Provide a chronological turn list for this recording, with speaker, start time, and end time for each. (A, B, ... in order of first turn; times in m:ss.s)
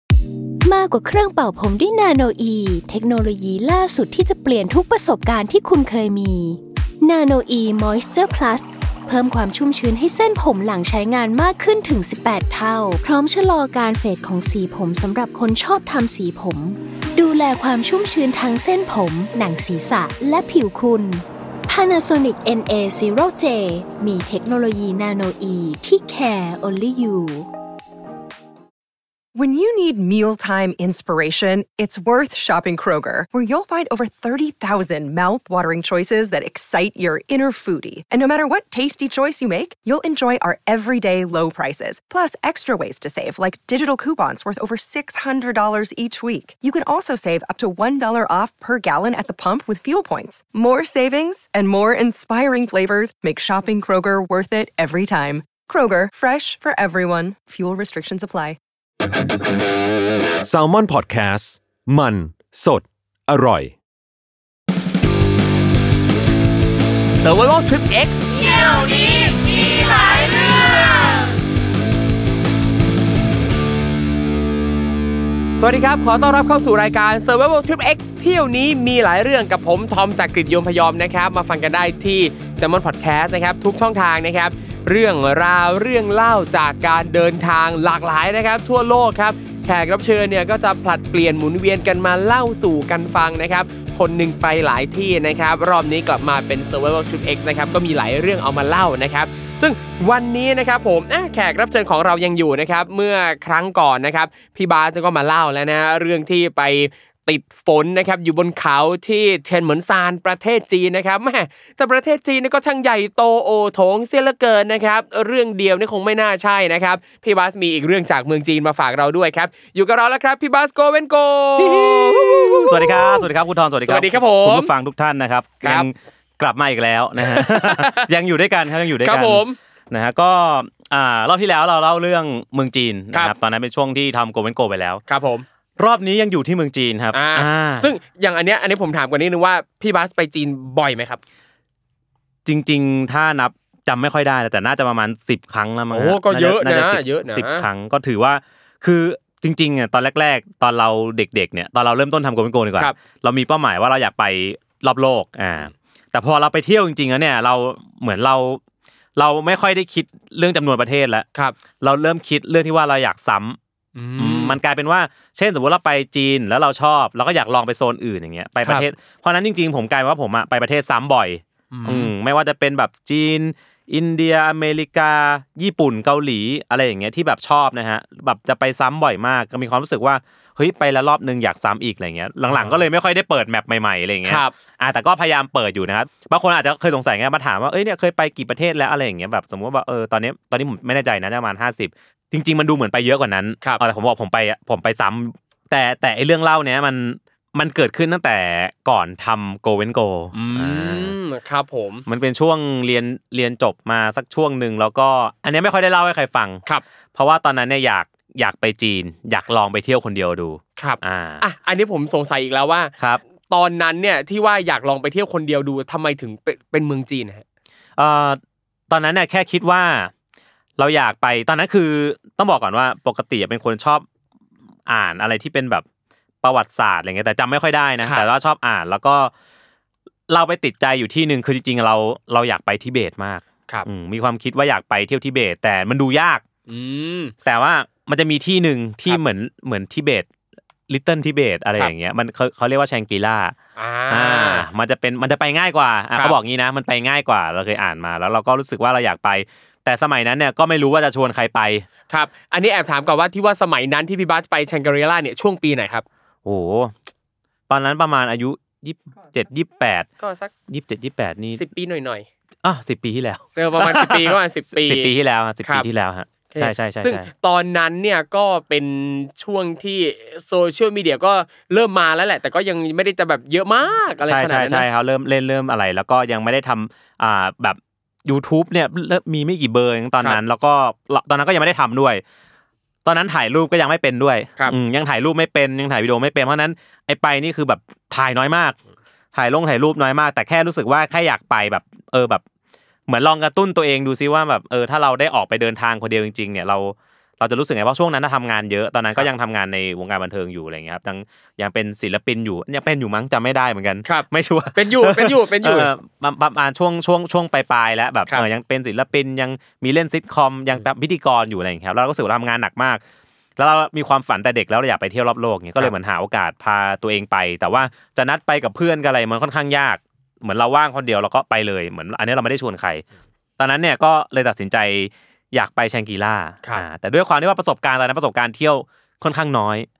0:00.6-0:27.5 A
0:29.3-0:58.6 B
1:00.4-1:03.8 C
1:07.1-1:11.1 D
1:15.6-2:03.3 D
2:01.6-2:15.0 E
2:03.8-2:04.7 D
2:05.6-2:05.9 D
2:07.2-2:08.1 D
2:09.0-2:09.6 D
2:15.1-2:15.5 D
2:15.8-2:17.9 E
2:17.1-2:21.2 D
2:22.4-2:38.6 E
2:25.9-2:27.7 D
2:39.2-2:41.3 E
2:41.8-2:43.6 E
2:44.0-2:44.6 D
2:44.2-3:21.2 E
2:48.6-2:48.9 D
2:51.7-2:52.1 D
3:02.5-3:02.8 D
3:04.2-3:04.6 D
3:20.3-3:22.0 D
3:22.1-3:26.6 E
3:27.2-3:31.4 E
3:30.8-3:32.9 D
3:33.5-3:37.4 D
3:38.0-3:40.1 E
3:40.8-3:44.1 E
3:44.9-3:45.8 E
3:46.4-3:49.3 E
3:50.3-3:56.4 E
3:56.7-3:57.4 D
3:57.4-4:00.3 E
4:00.9-4:03.6 E
4:03.8-4:04.7 D
4:04.1-4:11.9 E
4:12.1-4:16.0 D
4:16.4-4:17.0 E
4:17.7-4:20.1 E
4:20.2-4:20.5 D
4:20.7-4:21.7 E
4:21.6-4:22.3 D
4:22.6-4:27.3 E
4:23.6-4:25.1 D
4:26.5-4:34.9 D
4:34.2-4:42.2 E
4:43.0-4:48.8 E
4:49.3-4:52.4 E
4:53.1-5:13.0 E
5:04.0-5:05.9 D
5:13.6-5:23.0 E
5:23.6-5:29.9 E